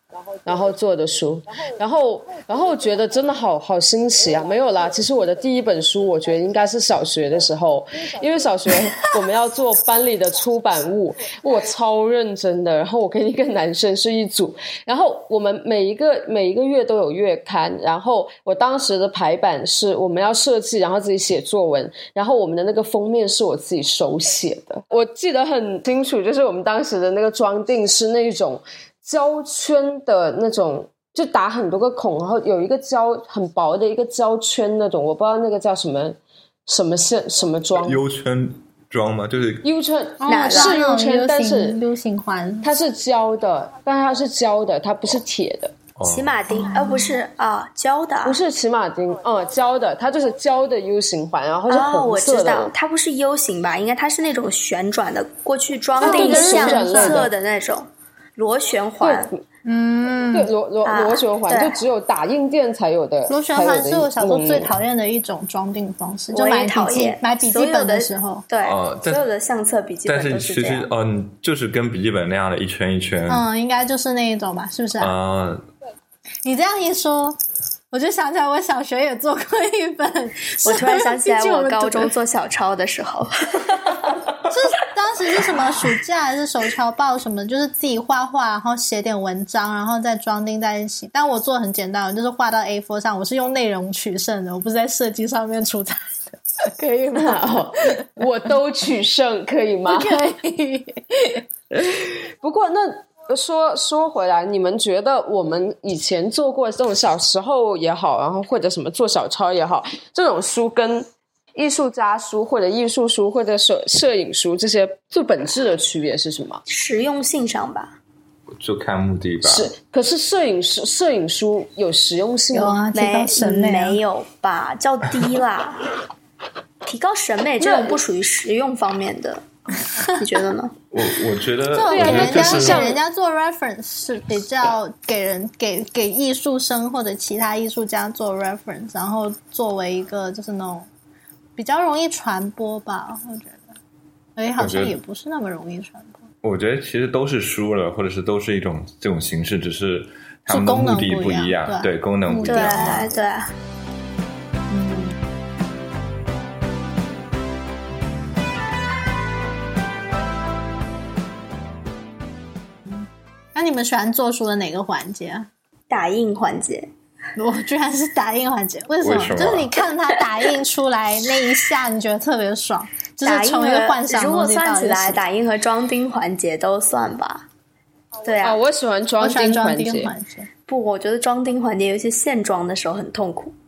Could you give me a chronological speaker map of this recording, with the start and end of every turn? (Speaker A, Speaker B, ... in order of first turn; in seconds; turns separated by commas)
Speaker A: 0.4-38.0, Speaker B: 37.8-39.6, Speaker A: 39.6-41.8, Speaker C: 40.2-42.7, Speaker D: 40.3-40.8, Speaker A: 42.6-45.7, Speaker B: 46.0-46.3, Speaker D: 46.0-48.4, Speaker C: 46.5-47.1, Speaker A: 48.2-52.7, Speaker D: 51.7-59.3, Speaker C: 56.0-57.3, Speaker A: 56.0-57.3, Speaker A: 59.0-59.4, Speaker C: 59.6-60.5, Speaker A: 60.3-64.7, Speaker D: 60.8-61.8, Speaker C: 63.3-68.4, Speaker D: 66.3-70.9, Speaker B: 68.6-69.2, Speaker B: 70.0-73.4, Speaker C: 73.3-75.1, Speaker B: 75.0-75.6, Speaker C: 76.4-77.4, Speaker C: 77.9-82.1, Speaker D: 80.6-84.1, Speaker C: 84.5-96.1, Speaker A: 96.8-100.2, Speaker C: 96.8-97.5, Speaker C: 99.9-101.4, Speaker A: 101.7-116.6, Speaker D: 116.7-118.0, Speaker B: 118.5-119.7, Speaker A: 119.4-122.8, Speaker C: 122.5-124.0, Speaker D: 122.9-125.9, Speaker D: 126.8-129.4, Speaker A: 127.6-128.0, Speaker D: 130.1-130.7, Speaker B: 130.9-133.0, Speaker C: 131.7-140.9, Speaker A: 131.8-133.0, Speaker C: 141.6-143.6, Speaker C: 144.4-146.2, Speaker B: 144.6-145.0, Speaker B: 146.4-153.0, Speaker C: 150.5-153.1, Speaker D: 152.4-153.5, Speaker C: 154.7-155.1, Speaker C: 162.9-165.5, Speaker D: 165.9-166.9, Speaker C: 167.4-175.2, Speaker B: 169.0-169.7, Speaker D: 173.2-177.5, Speaker D: 178.2-178.6, Speaker A: 178.4-180.1, Speaker C: 179.2-180.5, Speaker D: 180.7-183.5